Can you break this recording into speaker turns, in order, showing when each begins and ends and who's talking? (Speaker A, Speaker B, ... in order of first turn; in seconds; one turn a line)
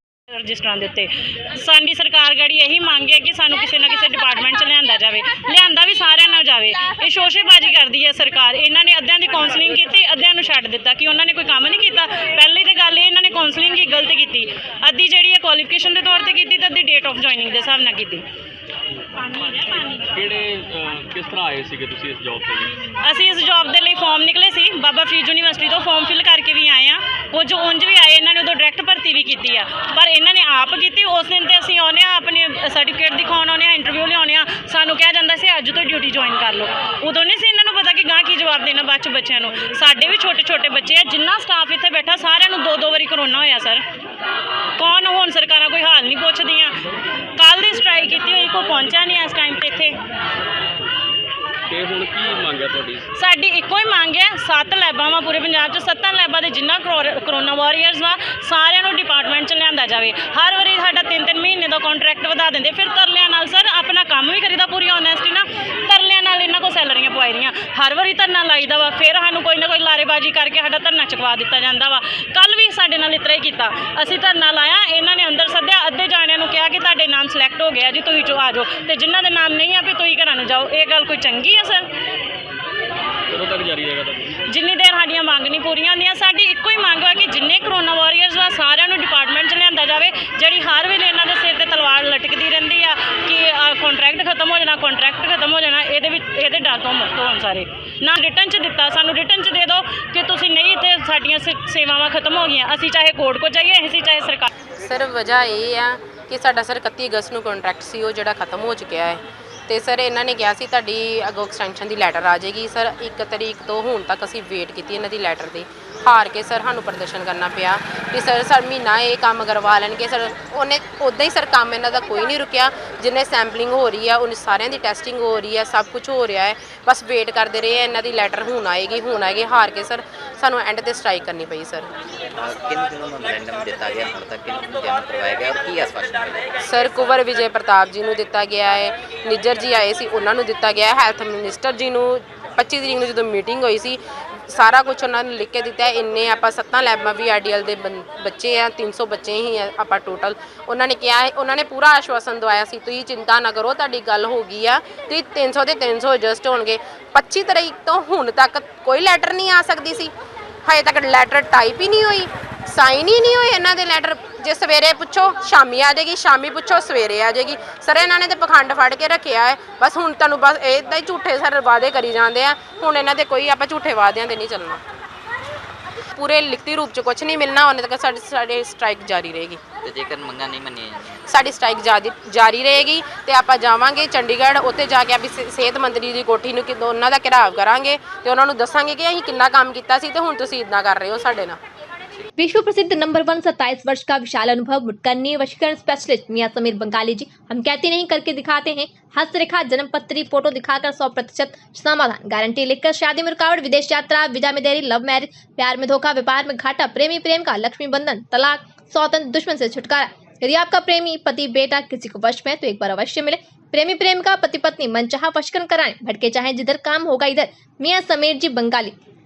Speaker A: 0.3-18.2
Speaker A: 19.3-20.0
Speaker B: 20.1-22.7
Speaker A: 23.0-43.8
Speaker A: 44.8-46.8
Speaker A: 47.4-50.0
Speaker B: 51.7-53.0
Speaker A: 53.1-81.9
Speaker B: 83.3-84.3
Speaker A: 84.5-104.5
Speaker C: 104.8-131.9
Speaker D: 132.3-136.5
Speaker C: 136.6-144.0
Speaker C: 144.5-160.1
Speaker C: 160.7-174.8
Speaker C: 176.1-179.6
Speaker D: 179.8-181.2
Speaker C: 181.3-191.6
Speaker E: 192.4-218.9